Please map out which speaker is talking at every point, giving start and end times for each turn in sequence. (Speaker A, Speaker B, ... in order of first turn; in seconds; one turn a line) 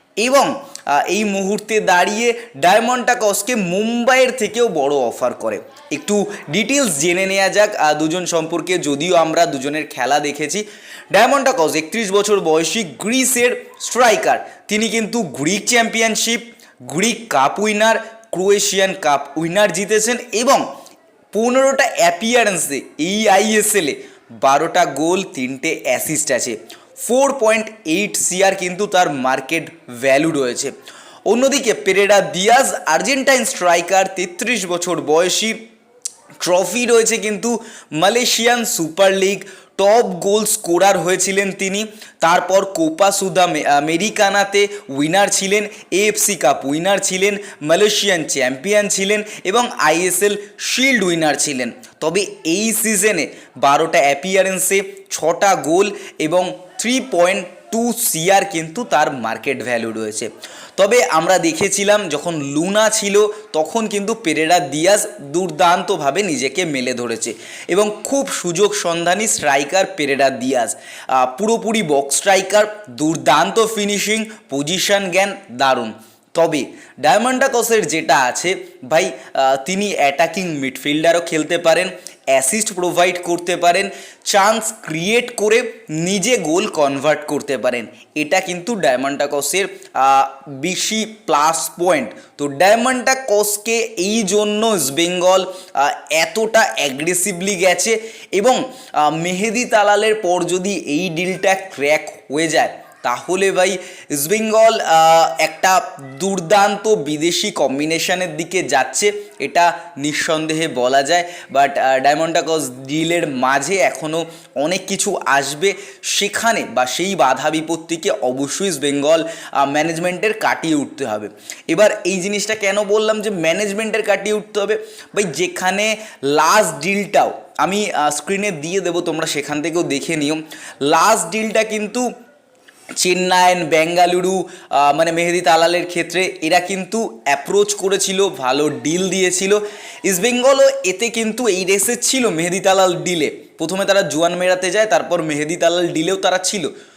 Speaker A: 0.2-20.7
Speaker A: 21.3-30.7
Speaker A: 31.3-35.6
Speaker A: 36.4-132.1
Speaker A: 133.0-146.7